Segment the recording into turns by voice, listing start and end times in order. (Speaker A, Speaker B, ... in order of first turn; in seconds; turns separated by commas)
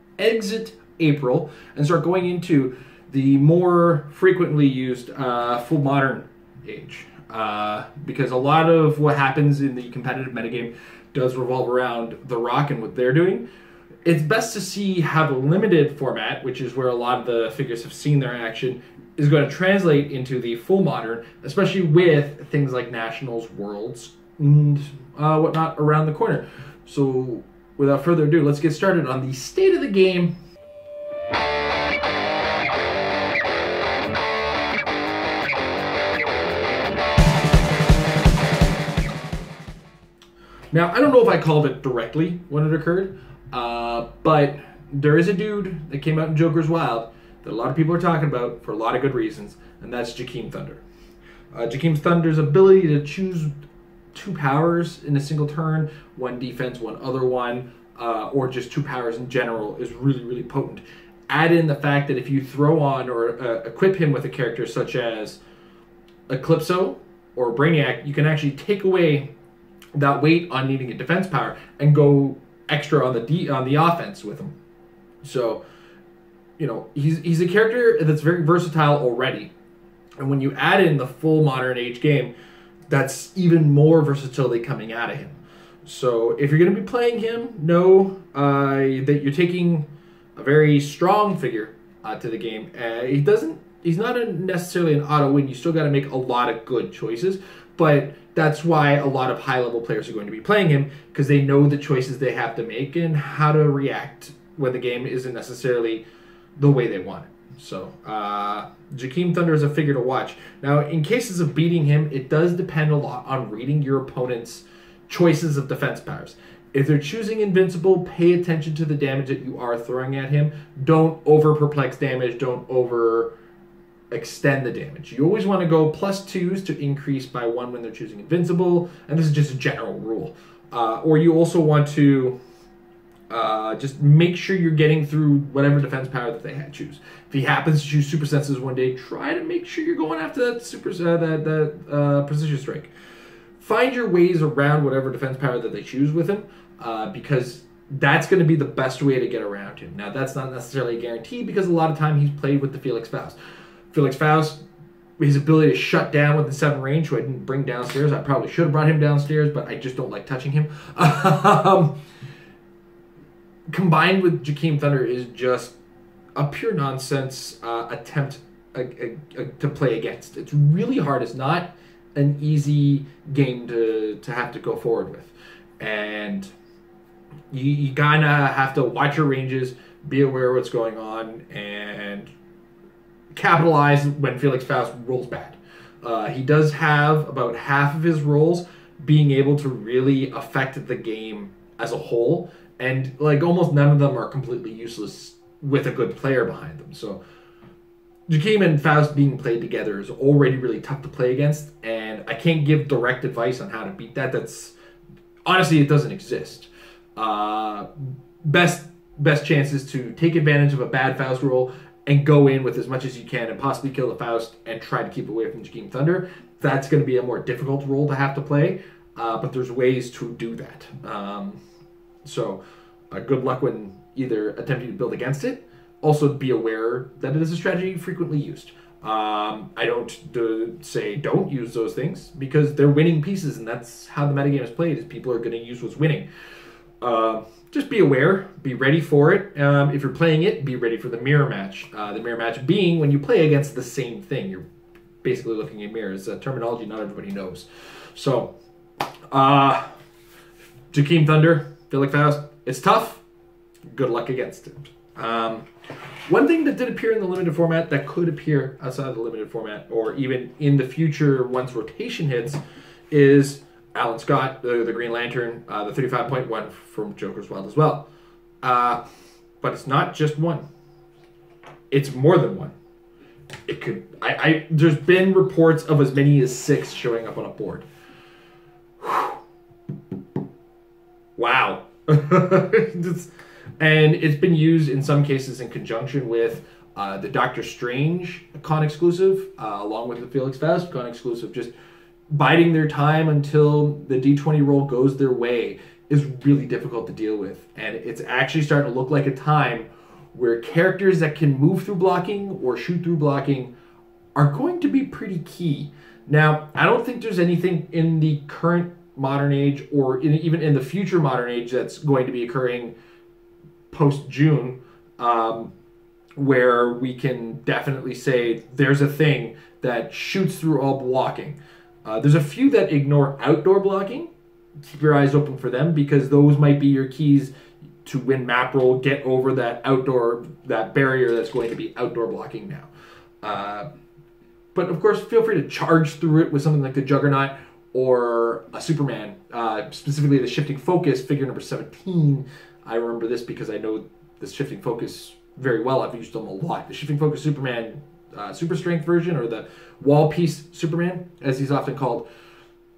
Speaker A: 0.2-13.4, Speaker A: 14.0-30.3, Speaker A: 40.7-50.8, Speaker A: 51.5-53.5, Speaker A: 54.1-65.4, Speaker A: 66.3-69.3, Speaker A: 69.9-74.5, Speaker A: 75.2-75.6, Speaker A: 76.6-79.5, Speaker A: 80.2-82.3, Speaker A: 82.9-106.0, Speaker A: 106.6-123.3, Speaker A: 124.1-132.4, Speaker A: 133.3-142.9, Speaker A: 143.6-153.4, Speaker A: 153.9-154.6, Speaker A: 155.2-161.9, Speaker A: 163.7-165.8, Speaker A: 166.3-176.5, Speaker A: 177.5-182.3, Speaker A: 183.3-197.2, Speaker A: 198.3-204.7, Speaker A: 205.4-207.9, Speaker A: 208.4-221.6, Speaker A: 222.2-236.2, Speaker A: 237.0-244.6, Speaker A: 245.2-248.5, Speaker A: 249.3-249.9, Speaker A: 250.9-253.2, Speaker A: 253.9-255.7, Speaker A: 256.2-268.1, Speaker A: 268.6-269.0, Speaker A: 269.6-270.6, Speaker A: 271.9-272.7, Speaker A: 273.7-277.8, Speaker A: 279.0-279.4, Speaker A: 281.4-291.7, Speaker A: 292.3-303.7, Speaker A: 304.3-312.9, Speaker A: 313.9-315.7, Speaker A: 316.4-324.3, Speaker A: 324.9-327.5, Speaker A: 328.0-332.9, Speaker A: 333.4-333.9, Speaker A: 334.7-352.2